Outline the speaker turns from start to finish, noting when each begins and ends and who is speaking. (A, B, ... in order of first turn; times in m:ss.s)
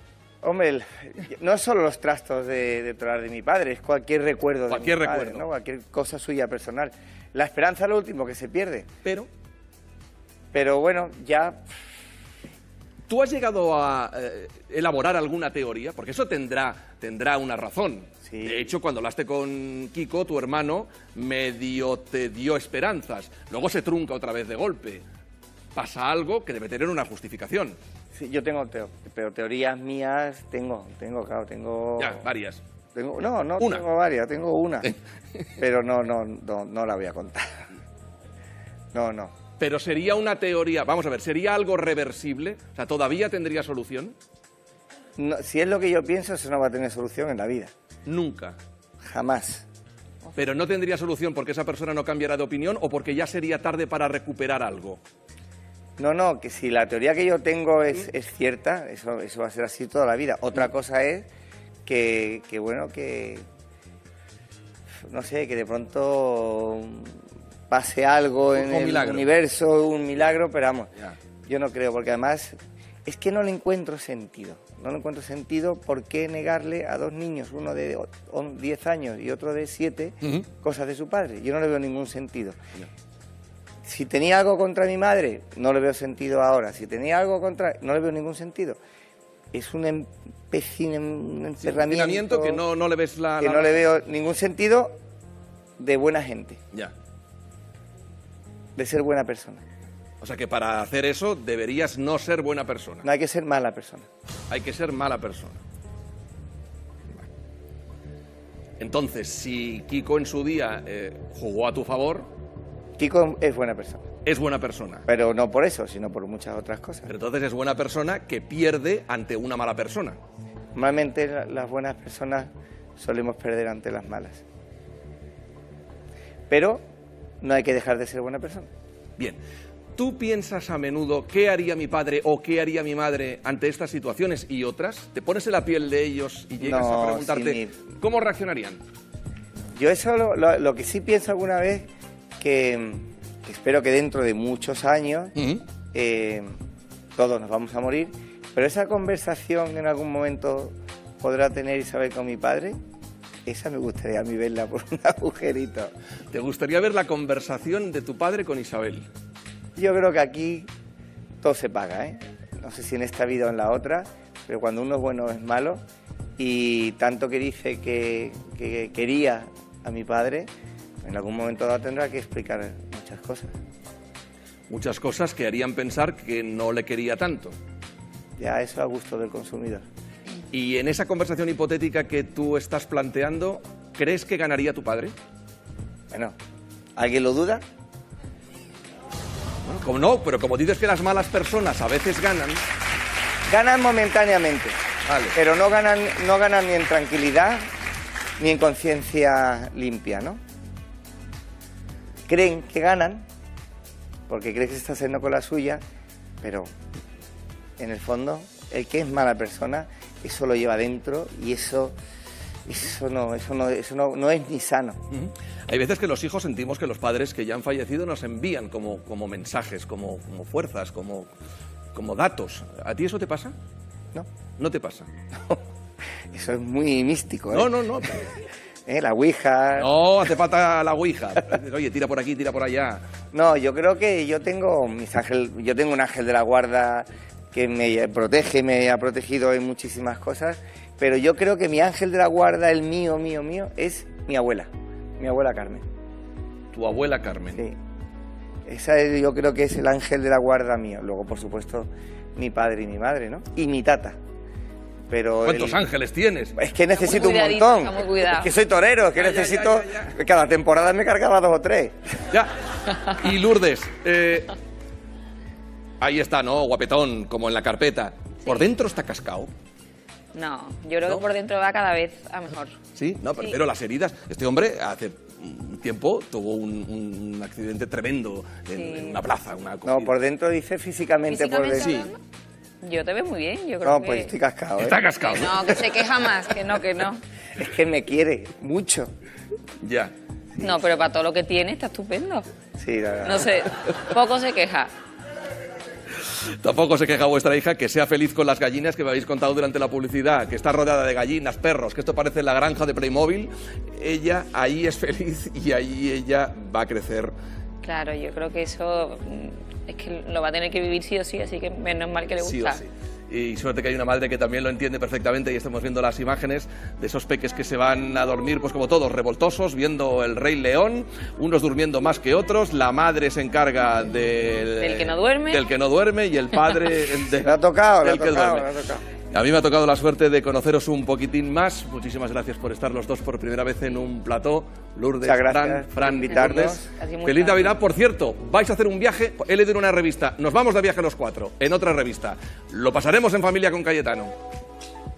0:00.4-0:08.9 A
0:04.7-0:05.5 B
0:09.0-0:09.3 B
0:10.5-0:11.6 A
0:13.1-0:25.0 B
0:18.2-0:18.6 A
0:25.7-0:27.8 B
0:28.1-0:32.3 A
0:32.0-0:32.6 B
0:32.9-0:34.9 A
0:35.6-0:37.7 A
0:38.9-0:39.3 A
0:39.6-0:44.1 B
0:45.2-0:47.7 A
0:48.0-0:48.6 B
0:49.0-0:49.6 A
0:50.3-0:55.0 B
0:56.0-1:01.3 A
1:01.8-1:03.4 A
1:05.0-1:10.9 A
1:08.5-1:09.3 B
1:11.4-1:22.6 A
1:23.8-1:28.8 A
1:29.5-1:32.6 A
1:31.6-1:33.8 B
1:33.4-1:34.9 A
1:35.8-1:36.6 A
1:38.8-1:39.6 A
1:40.2-1:43.1 B
1:43.0-1:44.1 A
1:44.5-1:45.6 B
1:48.8-1:52.3 B
1:53.0-1:54.1 A
1:54.2-1:55.0 B
1:55.0-1:57.1 A
1:57.1-2:00.2 B
2:00.7-2:04.4 A
2:06.5-2:06.8 A
2:07.4-2:08.7 A
2:10.0-2:18.8 B
2:16.6-2:17.7 A
2:19.7-2:25.3 A
2:25.3-2:25.6 B
2:25.9-2:26.5 A
2:27.2-2:32.8 A
2:33.4-2:35.9 A
2:36.3-2:39.1 B
2:39.8-2:40.7 A
2:41.4-2:45.8 A
2:46.4-2:50.5 A
2:51.0-2:53.5 A
2:54.7-2:57.6 B
2:58.4-2:59.8 A
3:00.5-3:05.1 B
3:07.0-3:07.6 A
3:09.6-3:12.6 B
3:13.5-3:14.8 A
3:15.0-3:15.4 B
3:15.3-3:17.7 A
3:18.4-3:20.4 A
3:22.3-3:23.2 A
3:24.3-3:25.8 A
3:26.4-3:26.7 A
3:27.8-3:31.9 A
3:32.6-3:35.0 A
3:35.1-3:41.3 B
3:41.9-3:43.5 B
3:44.6-3:45.1 B
3:46.3-3:47.8 A
3:47.5-3:48.4 B
3:48.8-3:49.9 A
3:49.8-3:53.0 B
3:53.3-4:05.8 A
4:06.7-4:07.6 B
4:08.6-4:14.2 A
4:15.1-4:15.8 A
4:15.4-4:16.5 B
4:16.6-4:21.9 A
4:17.0-4:18.5 C
4:19.2-4:20.1 B
4:22.3-4:24.5 B
4:26.0-4:29.5 B
4:30.3-4:32.8 C
4:32.9-4:40.1 B
4:38.8-4:39.2 C
4:39.8-4:42.0 A
4:41.3-4:42.2 C
4:41.8-4:42.1 B
4:42.8-4:44.3 C
4:43.8-4:45.0 A
4:44.8-4:46.1 B
4:45.2-4:47.2 C
4:47.6-4:49.1 A
4:49.8-4:50.1 B
4:50.6-4:50.8 A
4:50.6-4:52.5 C
4:52.8-4:53.5 A
4:53.2-4:54.9 C
4:56.2-5:07.3 B
5:07.8-5:12.8 C
5:12.4-5:28.7 B
5:24.8-5:25.6 C
5:27.4-5:29.0 A
5:29.3-5:44.3 B
5:35.2-5:36.9 A
5:36.3-5:37.8 C